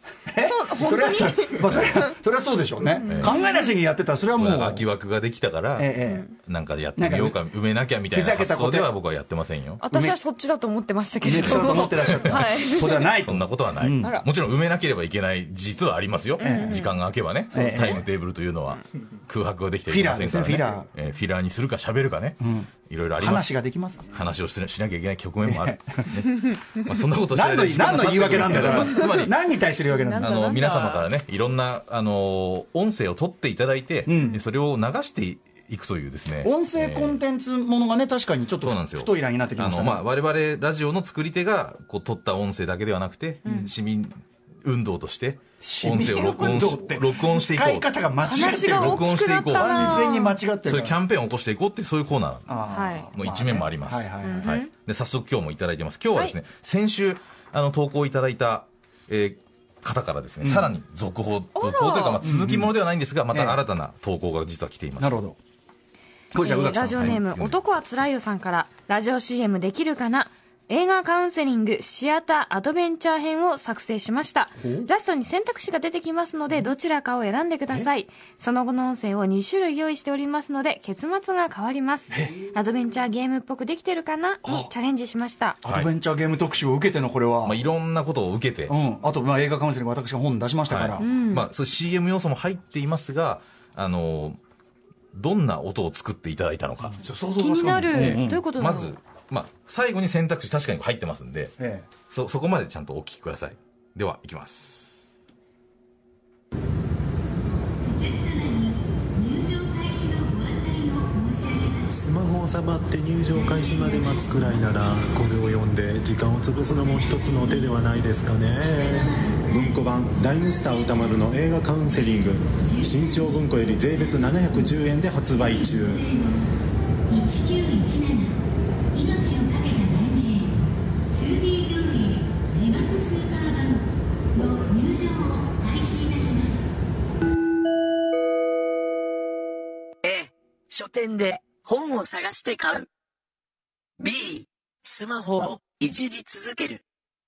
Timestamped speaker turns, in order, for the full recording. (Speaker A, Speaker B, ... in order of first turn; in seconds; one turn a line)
Speaker A: 0.3-4.9
Speaker B: 0.4-2.2
Speaker B: 2.9-3.7
Speaker C: 3.1-3.4
Speaker C: 4.3-9.8
Speaker A: 5.8-6.3
Speaker B: 6.0-6.3
Speaker A: 7.0-7.4
Speaker A: 8.1-8.9
Speaker B: 9.8-13.1
Speaker A: 9.9-10.2
Speaker A: 11.2-14.2
Speaker C: 11.4-12.5
Speaker C: 13.1-23.6
Speaker B: 14.0-14.3
Speaker B: 16.4-16.9
Speaker A: 16.4-16.8
Speaker A: 17.5-18.1
Speaker A: 19.9-20.9
Speaker A: 22.4-24.1
Speaker C: 24.1-29.3
Speaker A: 25.4-26.2
Speaker A: 27.3-30.3
Speaker B: 28.6-29.2
Speaker B: 29.9-31.1
Speaker C: 30.1-37.2
Speaker A: 34.1-34.4
Speaker A: 36.4-40.1
Speaker C: 38.6-47.9
Speaker B: 43.4-43.7
Speaker A: 45.6-51.0
Speaker B: 48.2-50.4
Speaker C: 48.7-50.1
Speaker C: 50.6-52.5
Speaker A: 52.5-54.5
Speaker B: 52.7-53.1
Speaker C: 53.1-65.2
Speaker B: 54.2-54.7
Speaker A: 60.4-60.7
Speaker B: 61.5-62.2
Speaker A: 62.2-62.8
Speaker A: 63.3-63.6
Speaker A: 65.0-65.4
Speaker A: 66.3-67.2
Speaker B: 66.4-85.6
Speaker C: 66.8-67.6
Speaker A: 74.6-74.9
Speaker A: 82.1-82.4
Speaker A: 84.4-84.7
Speaker A: 85.6-87.6
Speaker C: 87.4-88.8
Speaker A: 88.7-91.0
Speaker C: 90.7-94.4
Speaker B: 91.0-91.5
Speaker C: 95.1-97.0
Speaker A: 96.9-98.4
Speaker B: 97.3-99.0
Speaker C: 97.9-101.5
Speaker A: 101.6-101.9
Speaker C: 102.1-105.0
Speaker D: 107.9-111.8
Speaker E: 111.9-126.2
Speaker B: 127.2-128.3
Speaker B: 130.1-130.3
Speaker D: 132.9-133.7
Speaker D: 134.3-135.7
Speaker D: 140.0-142.9
Speaker D: 144.0-146.8